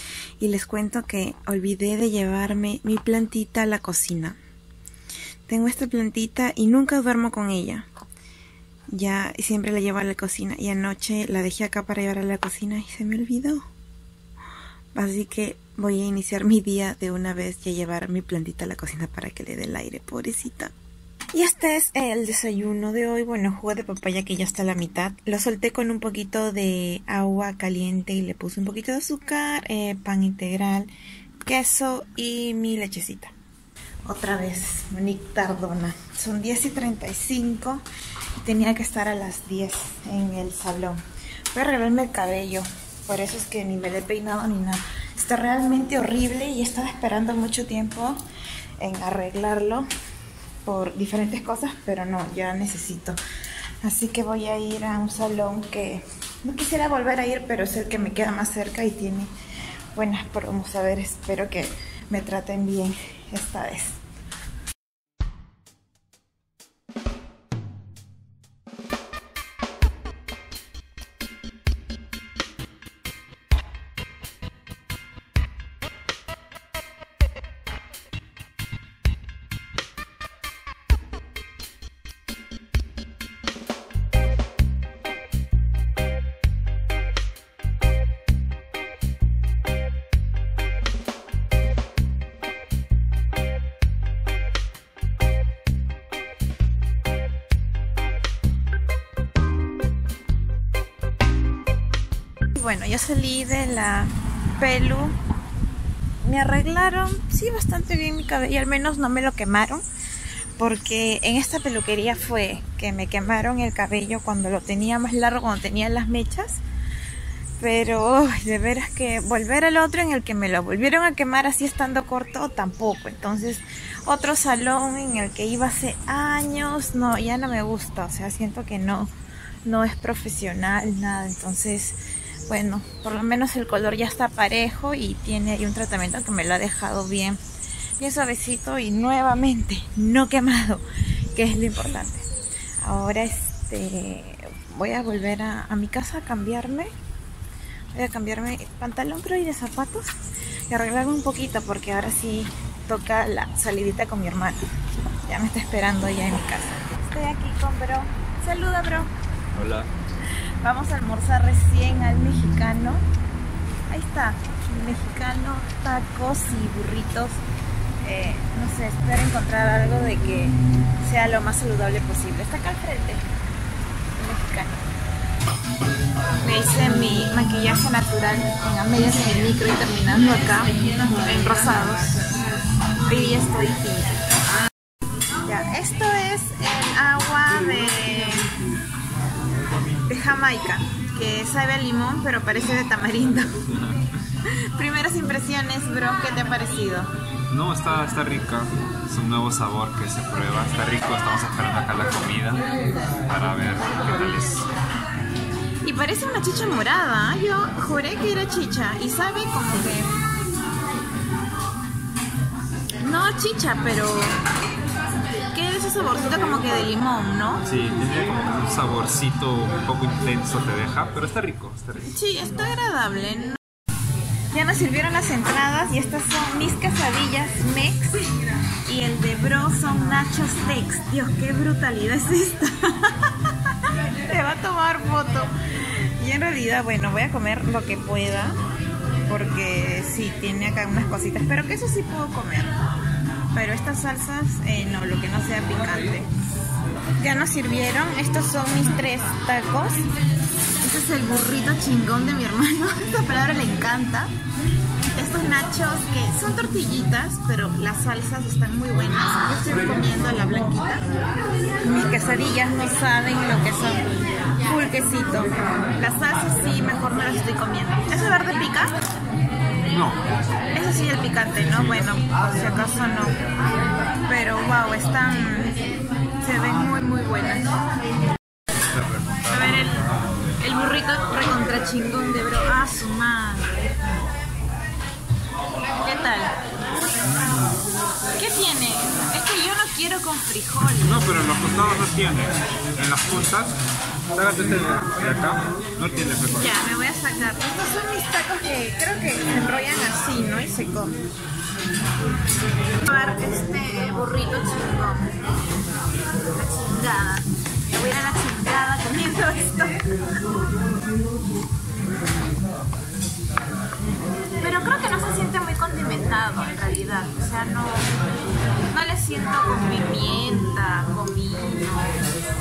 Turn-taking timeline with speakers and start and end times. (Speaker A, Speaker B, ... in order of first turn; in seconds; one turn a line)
Speaker A: 0.4-4.4
Speaker A: 5.5-7.9
Speaker A: 8.9-13.6
Speaker A: 14.9-20.7
Speaker A: 21.3-30.9
Speaker A: 31.4-33.3
Speaker A: 34.0-37.8
Speaker A: 38.4-41.0
Speaker A: 41.5-48.2
Speaker A: 48.8-49.9
Speaker A: 50.6-53.2
Speaker A: 53.8-59.3
Speaker A: 59.9-64.0
Speaker A: 102.5-105.2
Speaker A: 106.2-109.8
Speaker A: 110.6-116.6
Speaker A: 117.6-129.1
Speaker A: 129.6-137.4
Speaker A: 138.0-142.3
Speaker A: 142.8-146.9
Speaker A: 147.9-150.1
Speaker A: 150.7-154.6
Speaker A: 155.2-159.1
Speaker B: 159.5-159.9
Speaker A: 160.6-163.0
Speaker A: 163.9-167.4
Speaker A: 168.0-173.2
Speaker A: 174.2-174.8
Speaker A: 176.4-182.2
Speaker A: 183.1-184.2
Speaker A: 185.4-188.5
Speaker A: 190.1-193.6
Speaker B: 193.7-194.0
Speaker A: 194.4-197.1
Speaker B: 197.5-202.6
Speaker B: 203.3-204.7
Speaker A: 205.8-210.1
Speaker A: 213.0-214.4
Speaker A: 215.5-217.6
Speaker B: 217.7-222.1
Speaker A: 222.1-223.6
Speaker A: 224.5-228.3
Speaker A: 228.8-235.5
Speaker A: 236.2-238.6
Speaker A: 239.3-242.7
Speaker A: 243.5-246.3
Speaker A: 247.2-250.1
Speaker A: 250.8-254.3
Speaker A: 255.1-261.1
Speaker A: 261.8-264.1
Speaker A: 264.6-269.0
Speaker B: 269.8-270.2
Speaker A: 270.7-273.3
Speaker A: 274.2-275.8
Speaker A: 276.4-277.7
Speaker B: 278.9-279.7
Speaker A: 279.5-280.0
Speaker A: 280.6-283.8
Speaker A: 286.0-286.6
Speaker A: 288.4-291.2
Speaker B: 291.0-293.7
Speaker B: 294.3-296.7
Speaker A: 296.5-301.2
Speaker A: 303.0-305.4
Speaker A: 306.5-310.1
Speaker A: 314.6-318.1
Speaker A: 318.9-322.2